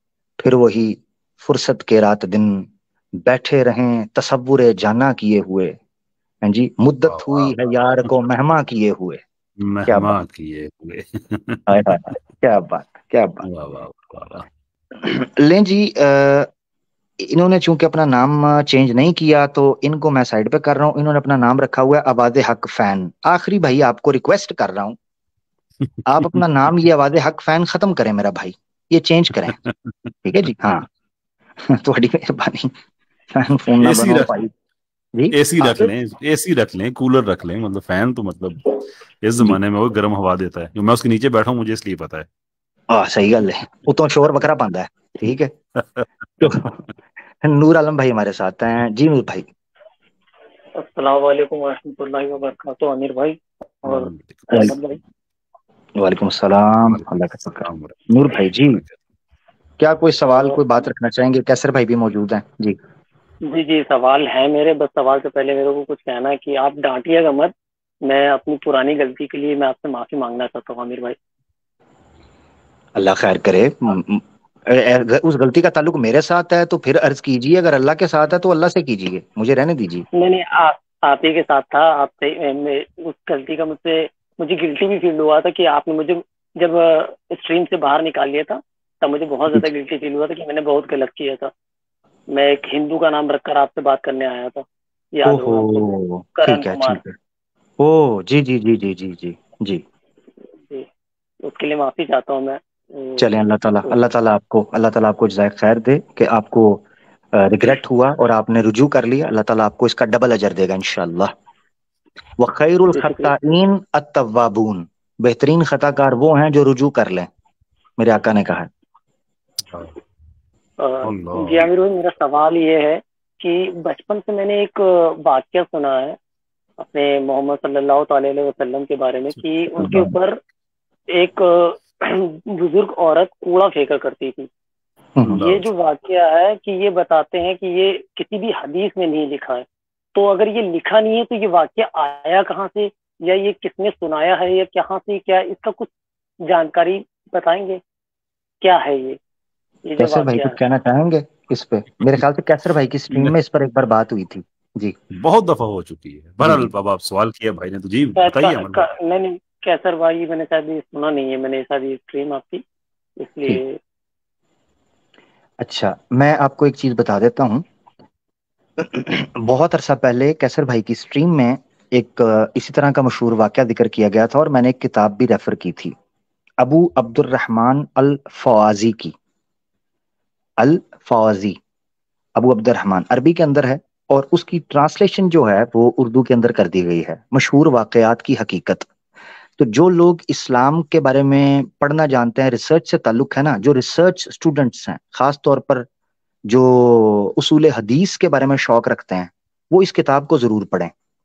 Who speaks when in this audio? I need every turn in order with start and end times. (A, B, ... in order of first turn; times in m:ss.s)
0:00.4-0:05.8 A
0:06.4-0:09.2 A
0:07.0-0:08.1 B
0:09.6-0:12.2 B
0:09.9-0:10.2 A
0:11.7-0:13.4 A
0:13.4-0:14.5 B
0:15.0-0:16.5 A
0:17.2-0:25.0 A
0:26.0-0:29.6 A
0:29.6-0:30.1 B
0:30.2-0:30.9 A
0:31.6-0:32.7 A
0:33.3-0:34.5 A
0:33.8-0:34.4 B
0:35.1-0:35.9 A
0:35.3-0:38.6 B
0:39.2-0:42.3 B
0:42.9-0:45.5 A
0:45.8-0:46.6 B
0:46.4-0:46.8 A
0:47.4-0:49.5 A
0:50.7-0:55.0 C
0:53.8-0:54.8 B
0:56.0-0:58.8 A
0:56.8-0:59.0 B
0:59.8-1:02.8 A
1:00.3-1:00.6 C
1:03.5-1:07.5 C
1:08.0-1:11.2 C
1:13.0-1:20.0 A
1:20.1-1:31.5 C
1:32.3-1:37.0 C
1:35.2-1:37.1 A
1:37.8-1:39.8 A
1:41.4-1:44.0 C
1:43.2-1:51.3 A
1:52.4-1:57.3 A
1:52.9-1:53.4 C
1:58.0-1:58.7 A
1:59.7-2:00.0 B
2:00.8-2:06.2 C
2:01.0-2:01.7 B
2:06.8-2:10.4 C
2:09.8-2:10.1 A
2:11.1-2:14.5 C
2:15.2-2:15.7 B
2:15.4-2:25.9 C
2:26.4-2:27.8 C
2:28.6-2:29.2 C
2:29.8-2:30.6 C
2:30.0-2:35.0 A
2:35.1-2:38.8 B
2:36.4-2:36.7 A
2:38.2-2:42.6 C
2:43.2-2:43.7 C
2:45.6-2:47.6 A
2:48.8-2:55.9 A
2:56.6-2:59.1 A
3:00.6-3:01.6 A
3:02.4-3:08.9 A
3:09.6-3:15.9 A
3:16.5-3:20.9 A